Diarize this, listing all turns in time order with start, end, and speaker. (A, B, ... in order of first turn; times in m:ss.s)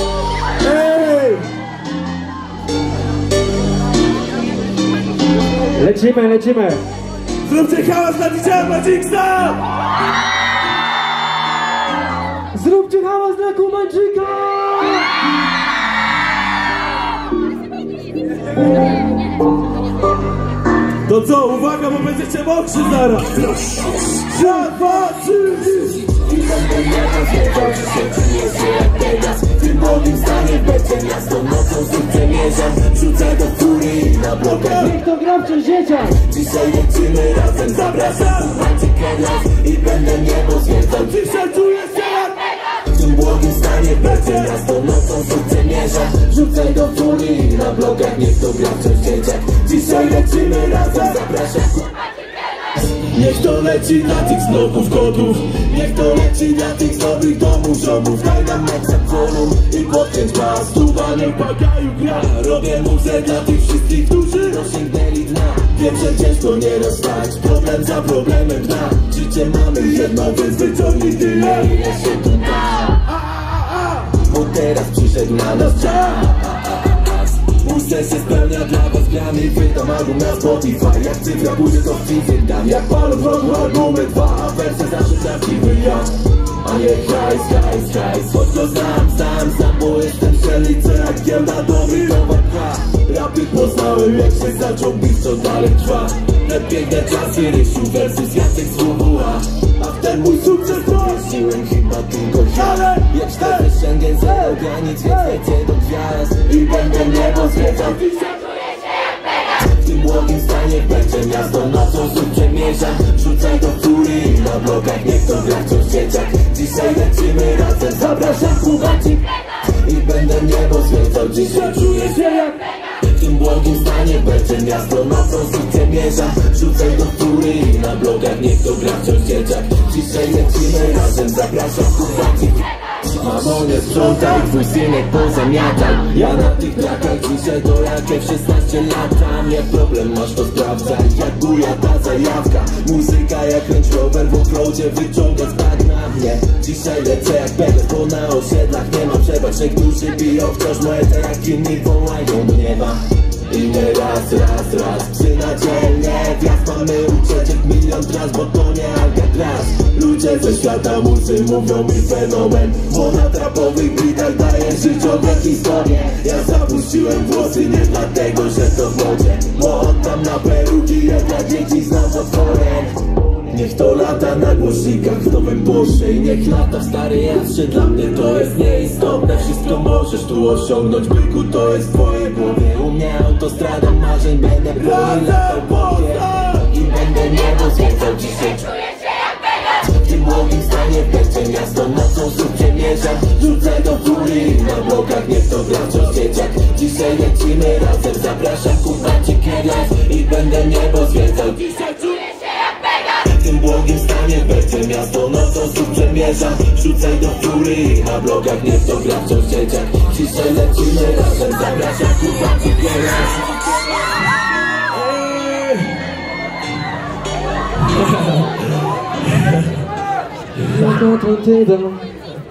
0:00.6-0:01.4 A
0:05.7-0:06.8 B
0:07.4-0:09.6 A
0:12.5-0:15.1 B
0:21.0-0:26.0 A
0:26.0-0:35.0 C
0:34.7-0:36.2 B
0:36.1-0:41.4 C
0:41.3-0:42.4 A
0:42.7-0:52.0 C
0:53.0-1:13.1 C
1:01.5-1:01.9 A
1:13.3-1:14.0 A
1:14.1-1:48.6 C
1:49.6-3:08.8 C
3:05.1-3:06.5 A
3:09.8-3:22.3 C
3:23.1-3:33.4 C
3:34.9-3:35.9 A
3:40.6-3:42.1 B